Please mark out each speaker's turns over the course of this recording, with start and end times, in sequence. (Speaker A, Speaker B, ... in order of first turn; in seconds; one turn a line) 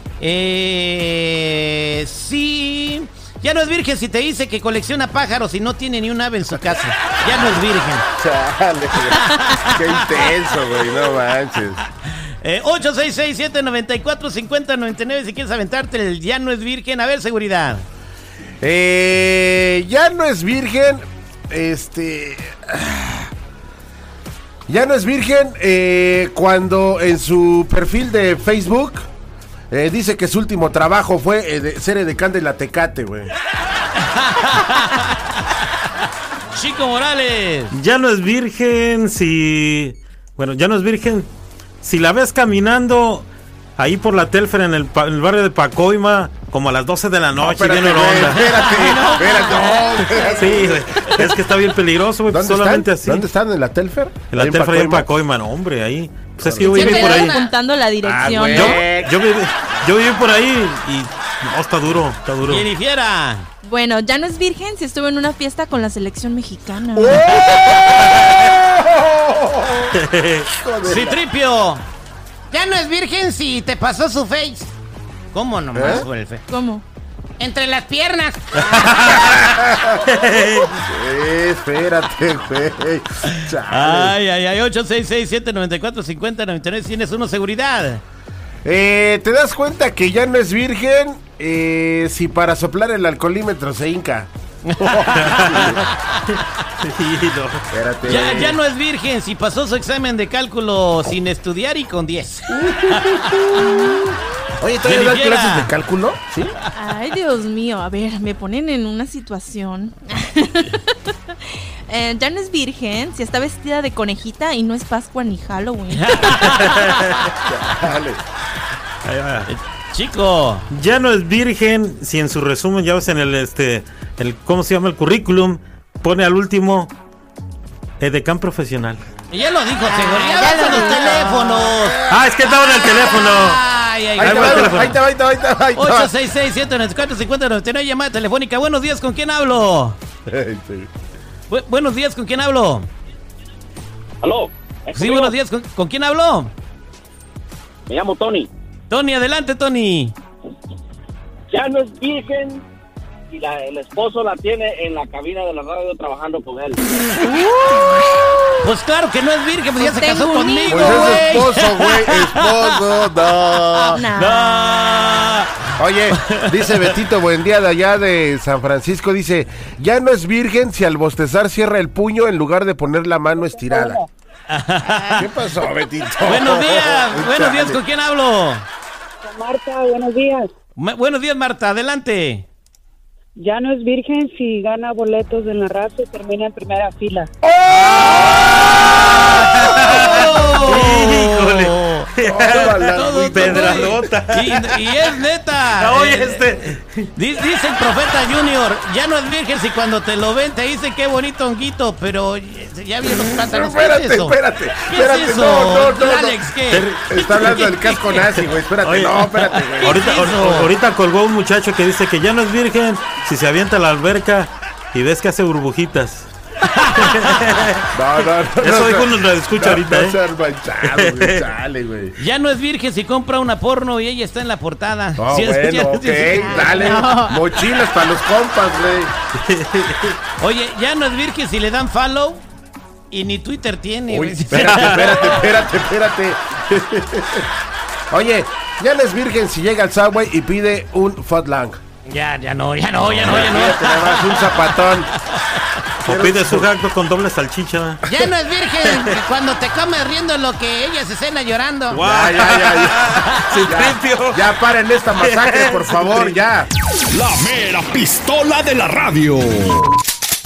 Speaker A: 0.2-8.1
Speaker B: 8.2-11.8
Speaker A: 9.1-10.3
Speaker A: 12.2-17.9
Speaker B: 18.6-23.3
Speaker B: 24.7-29.1
Speaker B: 29.7-33.3
Speaker A: 34.0-35.9
Speaker A: 36.5-37.8
Speaker C: 37.7-41.3
Speaker C: 41.8-48.5
Speaker B: 47.4-51.3
Speaker A: 48.5-48.9
Speaker D: 48.6-50.6
Speaker C: 50.4-53.3
Speaker B: 52.3-55.1
Speaker C: 54.3-57.5
Speaker B: 56.5-57.4
Speaker D: 56.6-58.8
Speaker B: 58.0-59.1
Speaker C: 58.5-62.6
Speaker A: 62.5-63.5
Speaker D: 63.6-67.3
Speaker B: 67.0-71.2
Speaker C: 69.9-70.5
Speaker A: 70.8-71.8
Speaker A: 72.5-74.7
Speaker A: 75.3-76.5
Speaker B: 75.7-76.1
Speaker D: 76.5-76.8
Speaker A: 77.4-78.8
Speaker C: 78.8-80.7
Speaker B: 79.0-80.0
Speaker B: 80.6-84.2
Speaker A: 83.7-88.0
Speaker B: 88.7-95.8
Speaker A: 94.7-96.4
Speaker C: 95.2-95.8
Speaker C: 96.3-97.7
Speaker B: 97.7-98.6
Speaker A: 98.0-103.4
Speaker B: 102.5-106.5
Speaker D: 103.6-104.1
Speaker A: 104.8-105.7
Speaker D: 106.7-111.3
Speaker D: 111.9-116.6
Speaker A: 115.9-117.4
Speaker C: 116.4-117.0
Speaker B: 117.5-118.2
Speaker C: 119.0-119.5
Speaker A: 119.5-120.7
Speaker C: 120.7-126.9
Speaker C: 128.0-129.0
Speaker A: 129.3-135.0
Speaker D: 129.9-131.2
Speaker B: 131.1-132.3
Speaker C: 132.1-133.6
Speaker C: 134.2-135.0
Speaker B: 134.2-136.1
Speaker A: 135.8-140.0
Speaker B: 140.3-140.9
Speaker A: 141.5-142.9
Speaker E: 144.2-145.3
Speaker A: 144.9-146.5
Speaker E: 147.9-148.5
Speaker A: 148.9-150.2
Speaker E: 151.5-152.7
Speaker E: 153.3-156.8
Speaker D: 157.5-158.2
Speaker A: 158.6-162.7
Speaker D: 159.8-161.3
Speaker B: 160.7-164.0
Speaker A: 163.7-165.5
Speaker D: 163.9-165.2
Speaker B: 165.8-174.0
Speaker A: 166.1-167.0
Speaker F: 173.6-174.1
Speaker A: 174.5-175.3
Speaker B: 175.1-177.8
Speaker A: 176.2-178.7
Speaker F: 179.2-180.5
Speaker A: 180.8-182.5
Speaker F: 183.4-187.3
Speaker B: 187.5-188.4
Speaker A: 187.7-189.1
Speaker C: 189.4-195.0
Speaker A: 189.7-196.5
Speaker B: 192.2-194.1
Speaker C: 195.8-197.1
Speaker A: 197.2-206.9
Speaker B: 203.1-210.0
Speaker C: 206.7-216.3
Speaker A: 207.6-208.0
Speaker A: 209.8-210.7
Speaker A: 216.7-217.2
Speaker C: 216.9-217.8
Speaker B: 217.9-222.2
Speaker C: 218.6-220.2
Speaker C: 220.8-221.5
Speaker A: 222.2-227.1
Speaker B: 225.2-229.1
Speaker D: 226.3-227.5
Speaker C: 229.4-230.2
Speaker A: 230.4-232.4
Speaker A: 233.1-235.4
Speaker B: 234.1-237.5
Speaker B: 238.1-241.8
Speaker A: 242.1-245.6
Speaker B: 243.2-245.1
Speaker C: 246.0-248.0
Speaker B: 246.1-246.7
Speaker A: 248.1-252.0
Speaker C: 248.8-249.2
Speaker C: 251.9-254.5
Speaker B: 252.0-253.1
Speaker B: 253.7-256.7
Speaker C: 255.2-256.4
Speaker G: 257.1-260.0